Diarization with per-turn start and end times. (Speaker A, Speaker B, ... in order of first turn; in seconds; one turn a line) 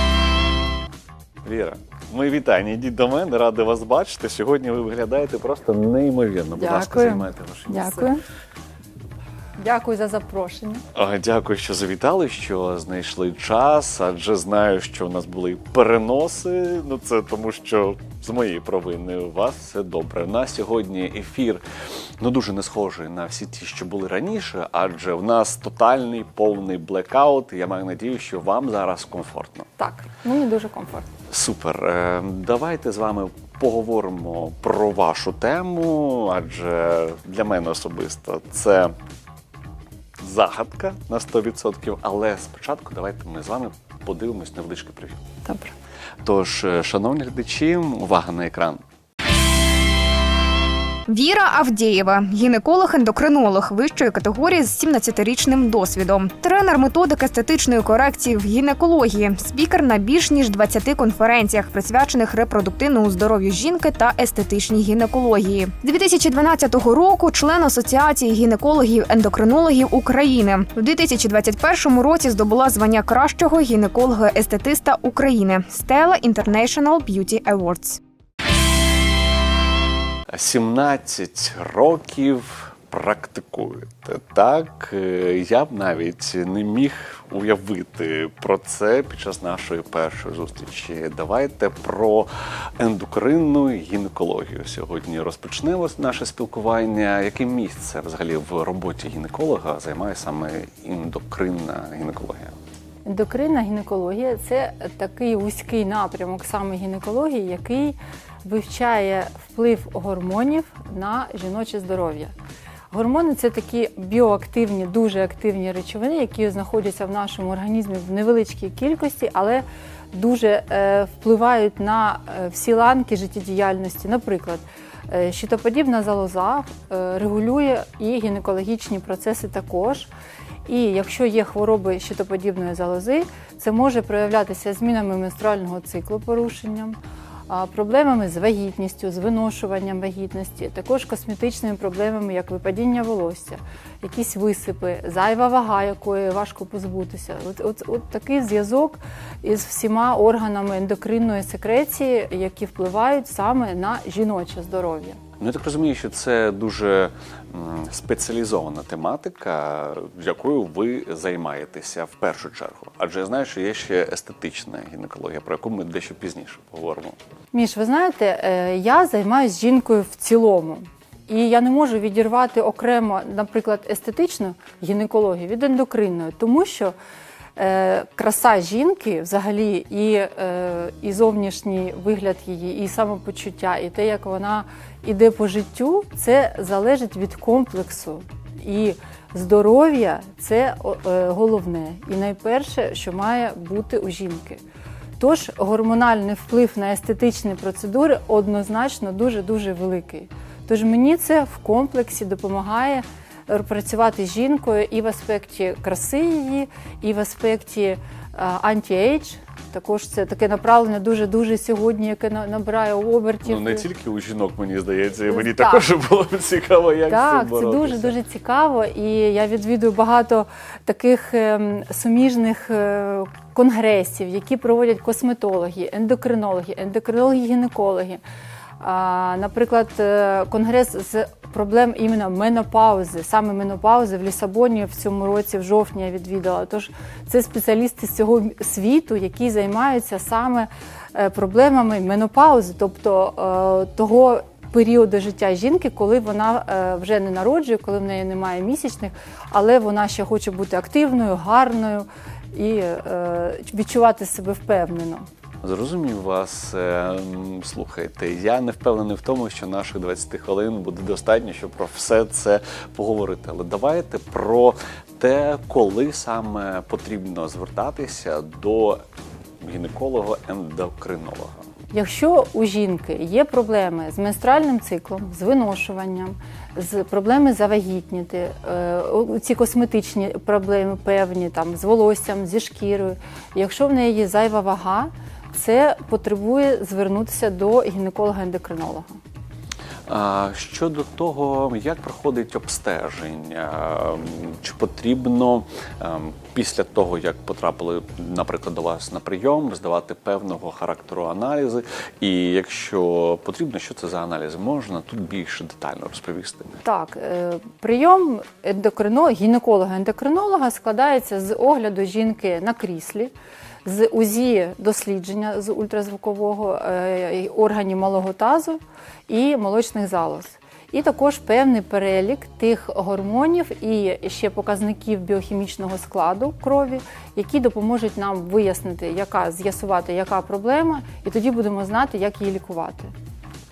Speaker A: 1.4-8.1
Speaker B: 6.5-8.2
Speaker B: 9.6-10.8
Speaker A: 10.9-21.6
Speaker A: 22.2-29.7
Speaker B: 29.8-31.1
Speaker A: 31.3-38.9
Speaker A: 40.2-45.2
Speaker B: 45.4-45.7
Speaker A: 46.2-48.8
Speaker C: 51.1-78.0
Speaker A: 80.3-102.5
Speaker B: 103.0-112.3
Speaker B: 112.9-130.1
Speaker B: 130.7-137.0
Speaker B: 137.5-155.2
Speaker A: 155.4-167.2
Speaker B: 167.5-176.9
Speaker B: 177.6-194.6
Speaker B: 195.2-213.8
Speaker A: 213.4-218.1
Speaker B: 215.3-215.9
Speaker B: 217.1-228.2
Speaker B: 228.8-255.2
Speaker A: 255.6-269.0
Speaker A: 269.6-271.6
Speaker B: 271.9-289.2
Speaker A: 290.1-306.8
Speaker B: 306.8-313.3
Speaker B: 313.8-333.1